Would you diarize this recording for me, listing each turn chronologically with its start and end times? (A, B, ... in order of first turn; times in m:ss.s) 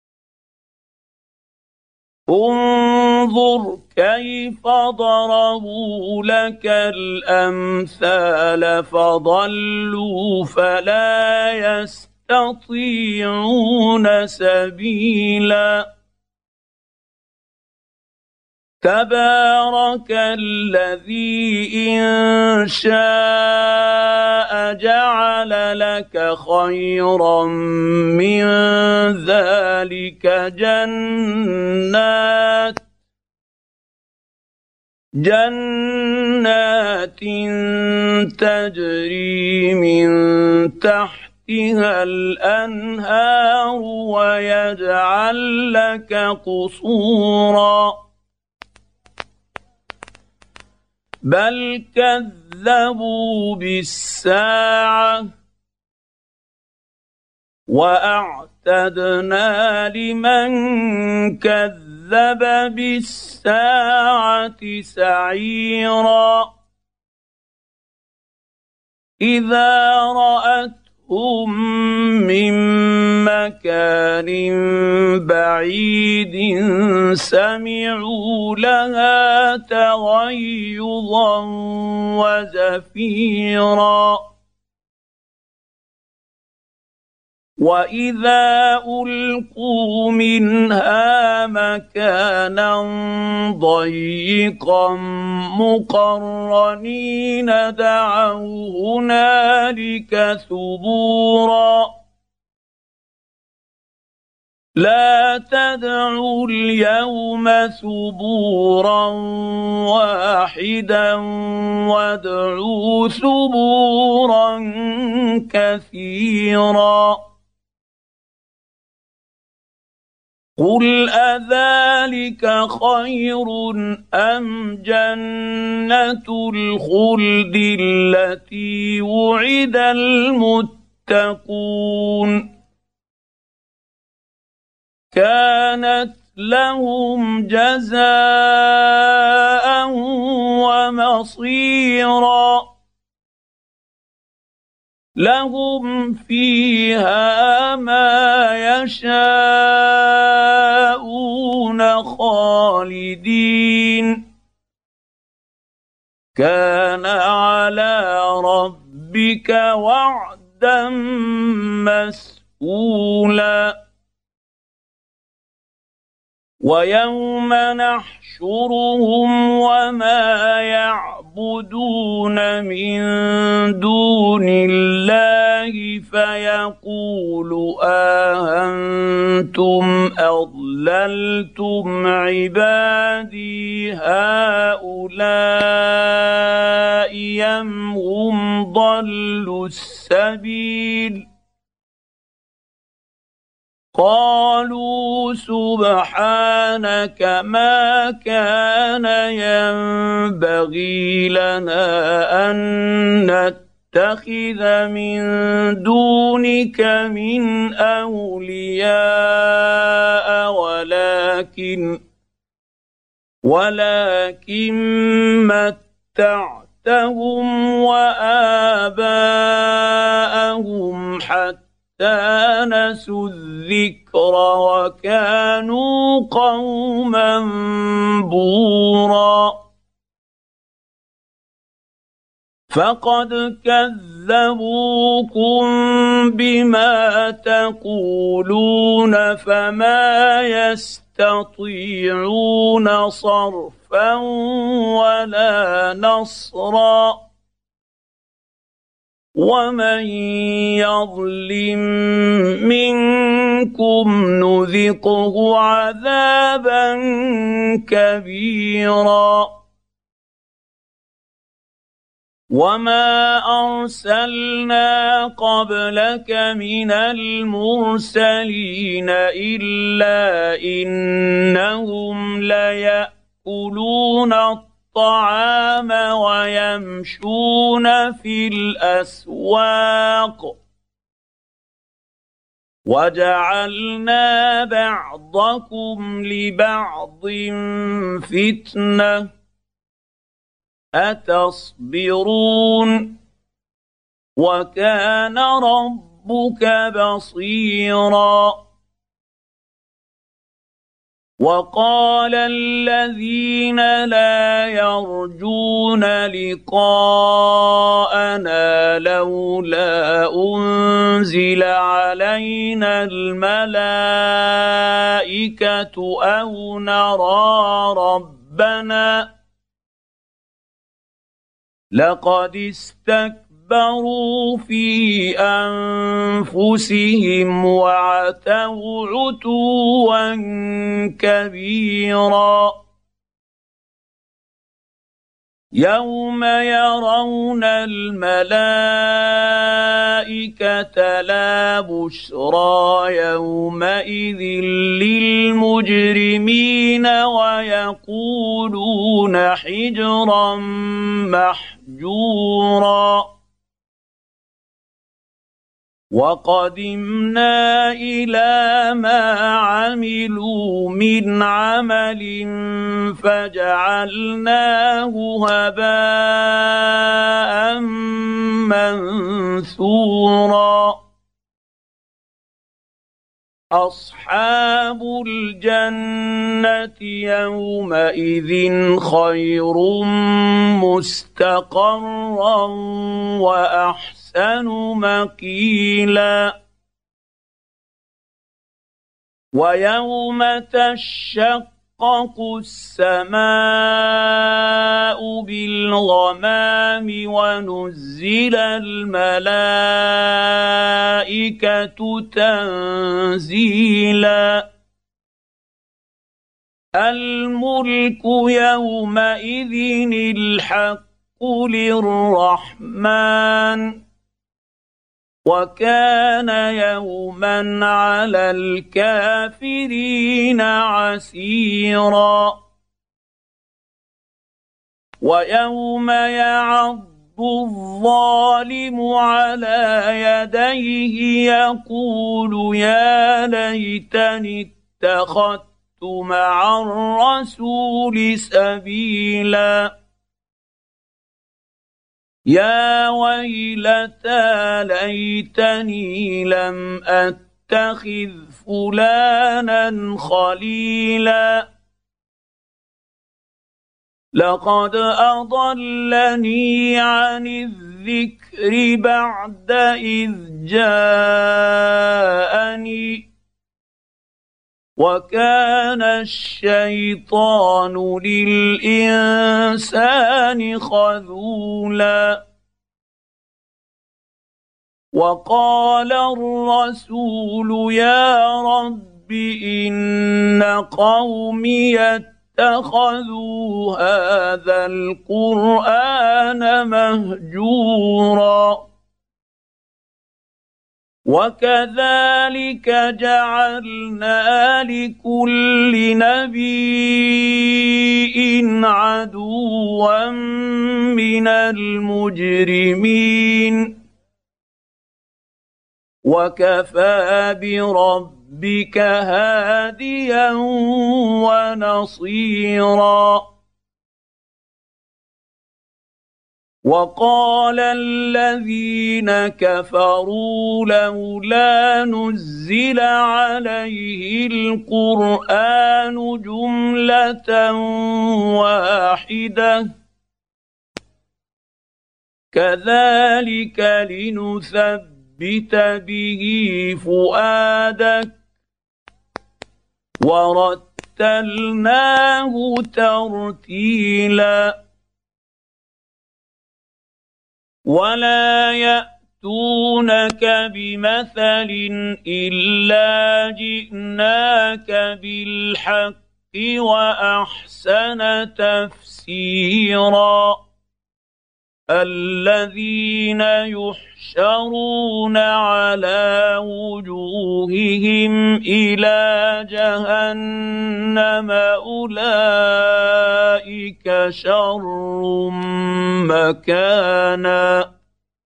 0:02.3-0:15.9 A
0:18.8-0:32.8 A
0:35.2-0:48.0 A
0:51.2-0:55.3 A
0:57.7-1:06.5 A
1:09.2-1:24.3 A
1:27.6-1:41.9 A
1:44.8-1:57.2 A
2:00.6-2:12.5 A
2:15.1-2:22.7 A
2:25.2-2:34.3 A
2:36.4-2:43.8 A
2:46.6-3:11.3 A
3:13.9-3:32.0 A
3:33.4-3:49.7 A
3:52.7-4:07.3 A
4:09.4-4:19.6 A
4:22.5-4:40.6 A
4:42.9-4:49.3 A
4:51.0-4:53.2 A
4:54.4-4:58.6 A
5:01.4-5:19.3 A
5:21.9-5:32.8 A
5:35.8-5:53.3 A
5:56.1-6:11.0 A
6:13.7-6:26.6 A
6:29.5-6:44.7 A
6:47.0-6:54.0 A
6:55.4-7:02.6 A
7:05.2-7:19.9 A
7:22.5-7:31.7 A
7:34.4-7:43.3 A
7:45.0-7:52.4 A
7:55.1-8:08.9 A
8:11.3-8:24.0 A
8:26.2-8:33.5 A
8:36.8-8:49.9 A
8:52.5-8:58.4 A
9:00.2-9:04.8 A
9:07.9-9:20.6 A
9:21.9-9:37.9 A